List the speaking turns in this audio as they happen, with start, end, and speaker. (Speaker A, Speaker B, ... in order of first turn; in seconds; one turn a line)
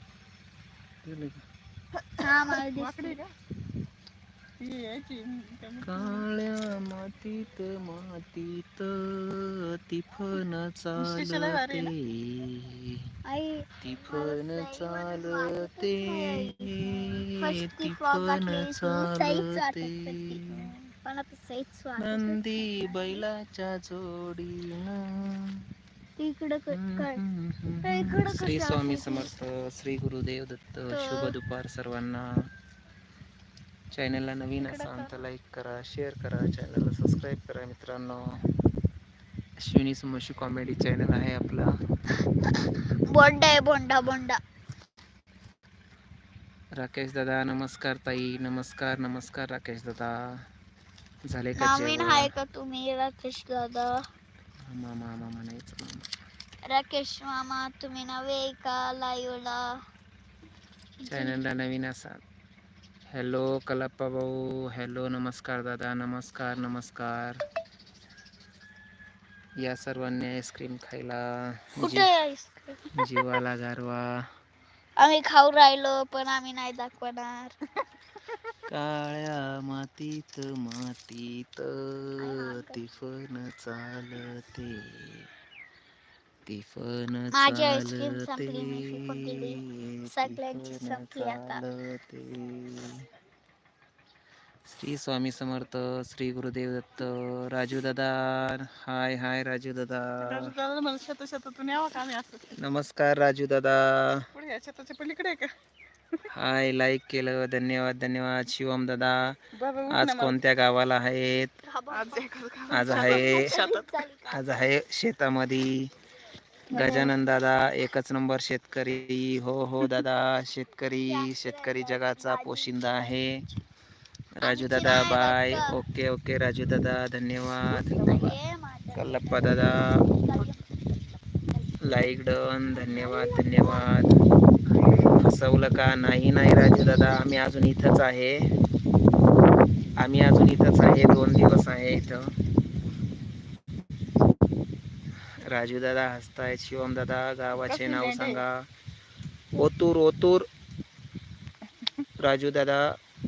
Speaker A: 1.0-1.4
Speaker B: 2.0-3.3
Speaker C: 2.2-3.2
Speaker B: 4.6-6.3
Speaker A: 5.8-13.0
Speaker B: 11.0-11.9
Speaker C: 13.3-20.4
Speaker A: 13.8-20.7
Speaker C: 21.0-23.2
Speaker A: 22.0-25.6
Speaker C: 26.2-27.2
Speaker A: 26.7-32.2
Speaker C: 27.8-29.3
Speaker C: 30.9-31.4
Speaker A: 33.9-38.2
Speaker C: 34.6-35.1
Speaker A: 39.6-41.7
Speaker C: 43.1-44.4
Speaker A: 46.8-50.1
Speaker A: 51.3-52.3
Speaker C: 51.6-54.0
Speaker A: 54.6-56.1
Speaker C: 56.6-59.7
Speaker C: 61.0-61.4
Speaker A: 61.1-62.2
Speaker A: 63.1-67.4
Speaker A: 69.6-72.1
Speaker C: 71.8-73.4
Speaker A: 73.0-74.2
Speaker C: 75.0-77.6
Speaker A: 78.7-85.3
Speaker C: 82.2-82.8
Speaker A: 86.5-93.0
Speaker C: 87.3-91.6
Speaker A: 94.7-100.5
Speaker B: 100.2-102.5
Speaker A: 102.5-104.3
Speaker B: 104.3-105.5
Speaker A: 106.3-109.4
Speaker B: 109.5-110.4
Speaker A: 109.9-111.5
Speaker C: 111.7-112.3
Speaker B: 111.9-114.1
Speaker A: 112.7-113.6
Speaker C: 112.9-114.4
Speaker A: 114.3-115.9
Speaker A: 116.7-123.3
Speaker B: 116.7-117.1
Speaker C: 121.0-123.1
Speaker A: 124.4-128.3
Speaker C: 124.4-125.8
Speaker B: 127.7-128.3
Speaker C: 128.0-131.8
Speaker A: 128.9-129.9
Speaker A: 131.8-134.1
Speaker C: 132.8-133.9
Speaker A: 135.1-138.5
Speaker A: 140.0-142.3
Speaker A: 145.5-148.7
Speaker B: 147.6-148.4
Speaker A: 149.6-150.5
Speaker B: 151.8-152.1
Speaker A: 152.2-152.9